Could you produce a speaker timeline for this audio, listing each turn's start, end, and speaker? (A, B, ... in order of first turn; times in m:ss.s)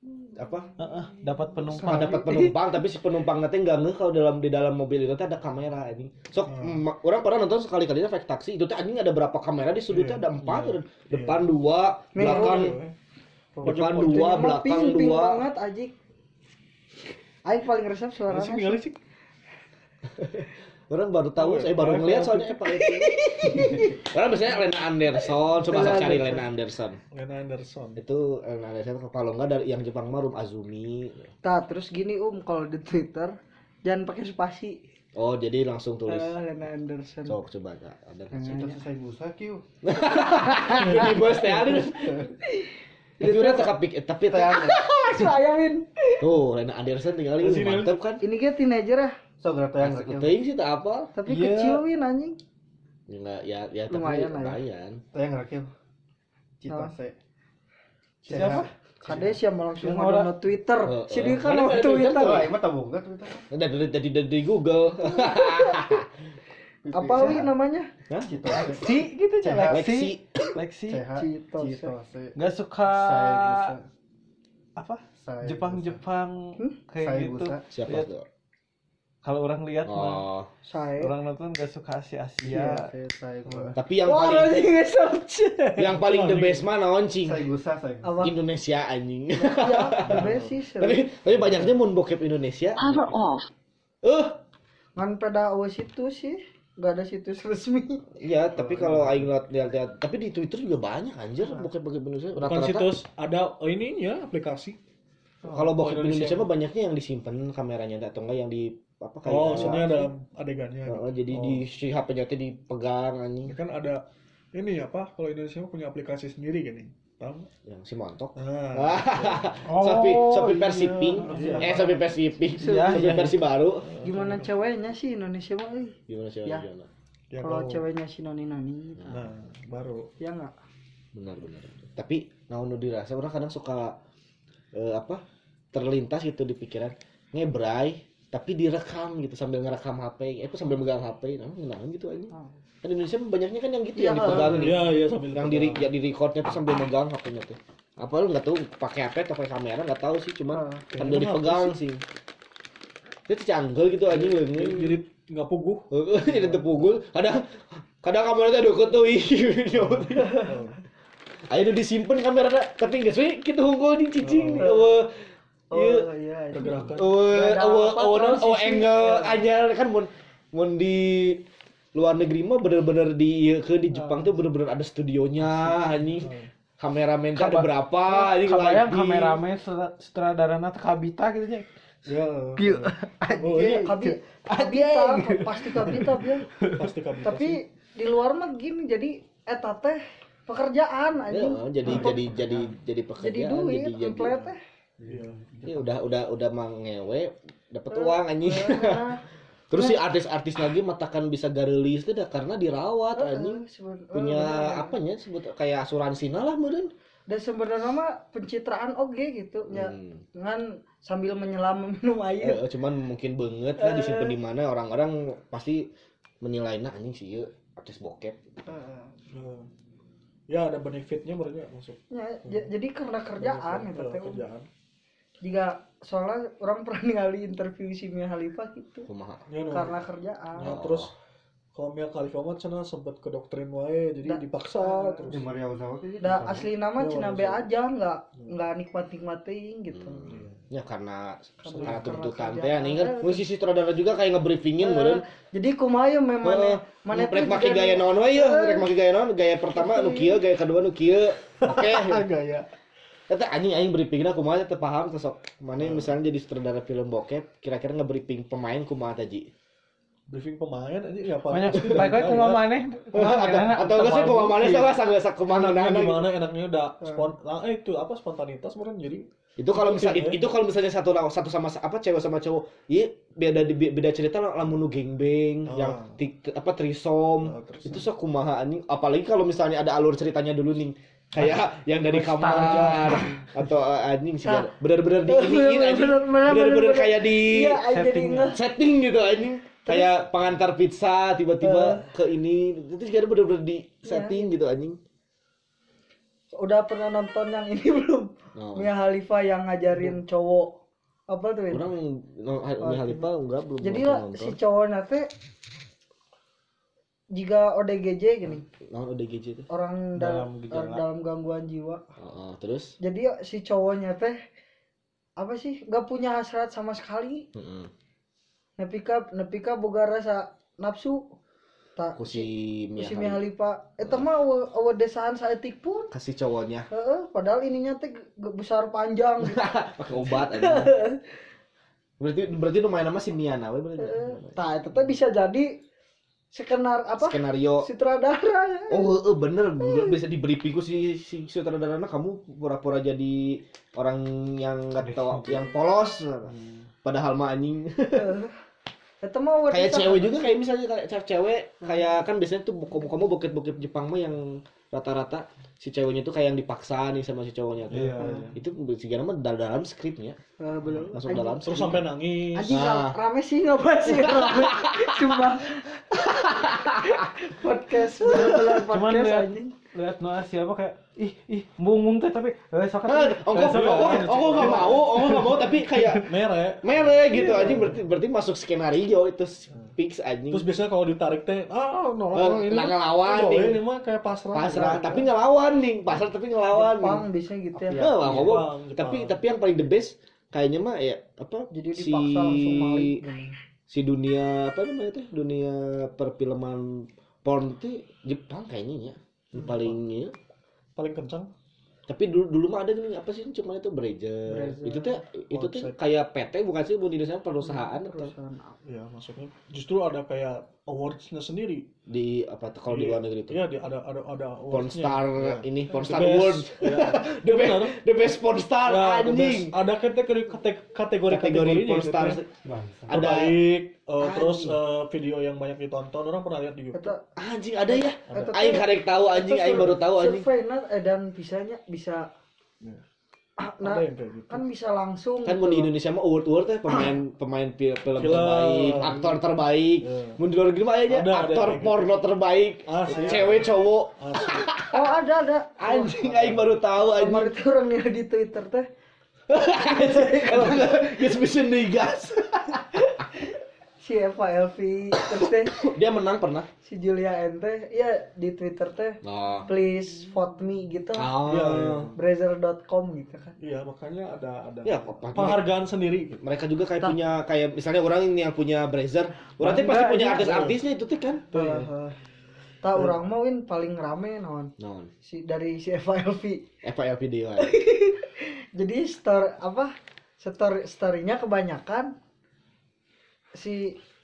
0:00.3-0:00.7 A
0:00.8-0:02.3 B
0:01.7-0:02.5 C
0:01.8-0:12.8 A
0:06.5-0:06.8 D
0:09.9-0:10.2 D
0:11.1-0:11.4 D
0:12.1-0:12.8 C
0:12.2-0:12.9 D
0:13.6-0:15.9 C
0:13.6-0:14.5 D
0:13.6-0:15.4 A
0:17.4-0:18.8 C
0:18.3-0:18.9 D
0:20.2-0:27.0 A
0:21.4-0:22.7 D
0:22.7-0:24.0 C
0:25.2-0:26.4 C
0:27.1-0:28.0 D
0:28.0-0:31.3 A
0:31.4-0:34.8 C
0:35.2-0:36.4 A
0:36.1-0:37.4 C
0:37.2-0:38.6 A
0:38.3-0:38.8 C
0:38.4-0:39.6 E
0:39.8-0:42.3 A
0:40.4-0:41.2 C
0:42.4-0:43.7 C
0:43.2-0:44.7 A
0:44.2-0:44.8 E
0:44.4-0:46.3 C
0:46.2-0:48.2 A
0:47.4-0:48.0 D
0:48.2-0:49.2 C
0:49.4-0:50.4 E
0:49.8-0:51.2 A
0:51.1-0:52.4 C
0:51.2-0:51.8 B
0:53.1-0:55.0 A
0:53.9-0:54.6 C
0:55.1-0:55.7 E
0:56.6-0:57.2 E
0:56.7-0:56.9 C
0:58.2-0:59.4 E
0:58.3-0:58.7 B
0:59.1-1:02.5 C
0:59.8-1:00.3 B
1:00.8-1:02.5 A
1:02.2-1:03.4 E
1:03.5-1:06.0 A
1:05.0-1:06.0 C
1:06.8-1:07.5 E
1:06.9-1:07.9 C
1:08.1-1:08.3 A
1:08.2-1:09.9 E
1:08.5-1:11.0 B
1:09.7-1:10.2 A
1:10.9-1:13.8 E
1:11.2-1:11.9 C
1:12.4-1:13.7 B
1:14.8-1:18.1 B
1:15.2-1:16.0 E
1:17.0-1:17.6 E
1:17.7-1:18.2 A
1:19.2-1:20.2 B
1:19.8-1:20.5 A
1:20.6-1:21.1 C
1:21.0-1:22.9 B
1:22.4-1:23.8 E
1:23.7-1:24.6 A
1:24.0-1:25.9 C
1:25.8-1:27.4 A
1:25.8-1:26.7 D
1:27.2-1:28.2 E
1:28.0-1:28.4 C
1:28.2-1:30.3 A
1:29.4-1:31.2 C
1:30.8-1:33.3 A
1:34.0-1:34.4 A
1:35.0-1:38.0 C
1:38.2-1:42.9 A
1:38.6-1:39.3 E
1:41.4-1:41.7 C
1:42.4-1:44.8 D
1:45.5-1:50.1 A
1:45.5-1:46.5 D
1:49.2-1:51.6 D
1:50.9-1:53.6 A
1:53.4-1:54.0 D
1:54.5-1:57.5 D
1:57.6-2:03.8 A
1:58.4-1:59.6 D
1:59.6-2:01.8 B
2:01.2-2:02.0 D
2:02.6-2:03.1 C
2:02.6-2:03.1 B
2:02.8-2:04.5 D
2:04.0-2:06.6 C
2:06.1-2:06.9 A
2:07.3-2:07.8 D
2:07.4-2:09.1 C
2:09.0-2:09.3 A
2:09.1-2:10.1 D
2:10.2-2:10.5 C
2:11.1-2:14.0 A
2:14.7-2:15.2 A
2:15.7-2:32.0 A
2:23.9-2:24.7 C
2:24.2-2:25.9 D
2:30.5-2:30.8 C
2:30.9-2:31.7 D
2:33.3-2:35.0 A
2:34.1-2:36.8 D
2:35.9-2:40.6 A
2:39.7-2:40.8 D
2:40.1-2:40.5 C
2:41.5-2:46.0 A
2:44.2-2:44.7 D
2:44.6-2:44.9 C
2:45.7-2:49.4 C
2:46.5-2:47.1 D
2:46.9-2:51.4 A
2:51.9-2:59.4 A
2:53.9-2:54.3 C
2:55.4-2:56.5 D
2:57.3-3:01.6 B
3:02.0-3:04.0 D
3:02.6-3:06.8 B
3:03.3-3:06.5 C
3:06.8-3:07.6 D
3:07.2-3:12.3 C
3:11.3-3:14.4 A
3:11.8-3:12.7 D
3:13.2-3:14.6 C
3:15.0-3:15.8 E
3:15.1-3:15.7 D
3:15.6-3:19.0 A
3:17.9-3:19.2 C
3:19.7-3:26.9 A
3:19.7-3:20.0 C
3:23.2-3:24.9 C
3:27.3-3:32.6 C
3:29.7-3:30.2 A
3:32.4-3:35.9 A
3:33.8-3:34.4 C
3:36.4-3:38.4 A
3:38.6-3:39.1 C
3:39.3-3:39.7 D
3:40.5-3:42.7 D
3:42.1-3:44.4 C
3:43.4-3:44.7 D
3:45.4-3:49.1 C
3:49.1-3:49.5 A
3:49.5-3:49.9 D
3:49.7-3:50.8 C
3:50.5-3:51.1 D
3:50.6-3:51.1 A
3:51.7-3:55.4 D
3:54.2-3:55.4 C
3:55.3-3:56.7 E
3:56.2-4:00.3 C
3:57.0-3:57.6 D
3:59.9-4:05.2 A
4:00.3-4:00.6 D
4:01.6-4:03.4 C
4:01.8-4:02.2 D
4:04.8-4:08.9 C
4:06.4-4:12.2 A
4:09.7-4:10.4 C
4:11.6-4:12.6 D
4:13.3-4:19.5 A
4:15.8-4:16.1 D
4:20.3-4:22.6 D
4:21.5-4:24.7 B
4:23.1-4:26.2 A
4:24.6-4:24.9 D
4:25.5-4:30.4 D
4:29.6-4:47.8 A
4:35.6-4:36.2 D
4:37.4-4:38.1 D
4:42.1-4:43.4 B
4:44.4-4:44.7 C
4:45.2-4:48.6 C
4:47.8-4:48.5 B
4:48.5-4:55.0 A
4:49.8-4:50.1 C
4:51.6-4:52.1 C
4:54.0-4:54.5 C
4:56.6-5:00.7 C
4:58.6-4:58.9 A
5:01.3-5:01.9 C
5:01.7-5:04.6 A
5:02.8-5:03.3 C
5:03.8-5:05.3 C
5:07.3-5:08.6 C
5:08.4-5:09.7 A
5:09.7-5:12.0 C
5:10.2-5:11.0 B
5:12.2-5:13.0 A
5:13.0-5:14.4 C
5:15.4-5:17.4 C
5:17.5-5:17.9 A
5:18.8-5:21.3 C
5:22.0-5:26.1 C
5:22.2-5:23.4 A
5:26.1-5:26.9 A
5:26.9-5:29.6 C
5:29.4-5:30.9 A
5:30.2-5:31.2 C
5:32.2-5:34.6 A
5:34.0-5:35.7 C
5:36.5-5:39.2 C
5:37.2-5:37.9 A
5:38.9-5:48.3 A
5:39.8-5:40.1 C
5:45.1-5:45.4 B
5:48.1-5:48.5 C
5:49.2-5:50.5 C
5:49.7-6:00.4 A
5:57.9-5:58.5 D
5:58.2-5:58.4 C
6:00.6-6:02.0 C
6:01.1-6:02.0 A
6:01.6-6:02.8 D
6:02.5-6:09.8 C
6:02.7-6:03.2 A
6:04.0-6:05.3 A
6:06.3-6:07.2 A
6:08.8-6:15.2 B
6:13.0-6:16.3 A
6:13.5-6:15.6 D
6:16.2-6:18.0 D
6:16.8-6:20.6 A
6:20.5-6:25.3 D
6:22.3-6:23.8 A
6:24.5-6:27.2 A
6:26.7-6:28.1 C
6:27.9-6:28.5 E
6:28.0-6:29.4 D
6:28.0-6:33.2 A
6:31.7-6:33.5 C
6:33.9-6:40.3 A
6:39.6-6:40.0 D
6:41.0-6:41.5 D
6:42.1-6:48.3 A
6:44.5-6:45.2 C
6:45.5-6:46.0 D
6:47.6-6:48.8 C
6:48.8-6:51.8 D
6:52.1-6:53.6 A
6:52.9-6:58.0 D
6:54.7-6:59.7 A
6:58.8-7:02.4 D
7:01.3-7:02.5 A
7:02.6-7:03.1 E
7:03.1-7:03.6 A
7:03.1-7:07.1 D
7:04.2-7:04.8 A
7:06.9-7:07.2 C
7:07.4-7:10.4 A
7:07.9-7:12.2 C
7:08.3-7:08.6 D
7:13.6-7:15.9 C
7:13.8-7:14.6 D
7:15.4-7:25.0 A
7:18.2-7:19.4 D
7:20.0-7:20.4 D
7:21.1-7:22.1 D
7:22.9-7:24.7 D
7:23.1-7:23.4 C
7:24.9-7:28.9 C
7:25.8-7:27.5 A
7:29.5-7:32.7 A
7:29.7-7:31.3 C
7:34.0-7:35.7 C
7:35.7-7:36.7 A
7:36.8-7:41.3 C
7:39.2-7:39.7 A
7:41.1-7:42.1 A
7:41.4-7:42.2 D
7:42.1-7:43.6 C
7:43.6-7:46.4 D
7:44.8-7:45.6 A
7:46.4-7:51.4 A
7:49.6-7:50.7 C
7:50.3-7:50.8 D
7:51.5-7:51.9 D
7:51.5-7:52.2 C
7:52.8-7:54.7 C
7:54.8-7:55.1 A
7:55.2-7:56.6 C
7:56.8-7:57.8 A
7:57.6-8:02.1 C
8:03.6-8:04.0 C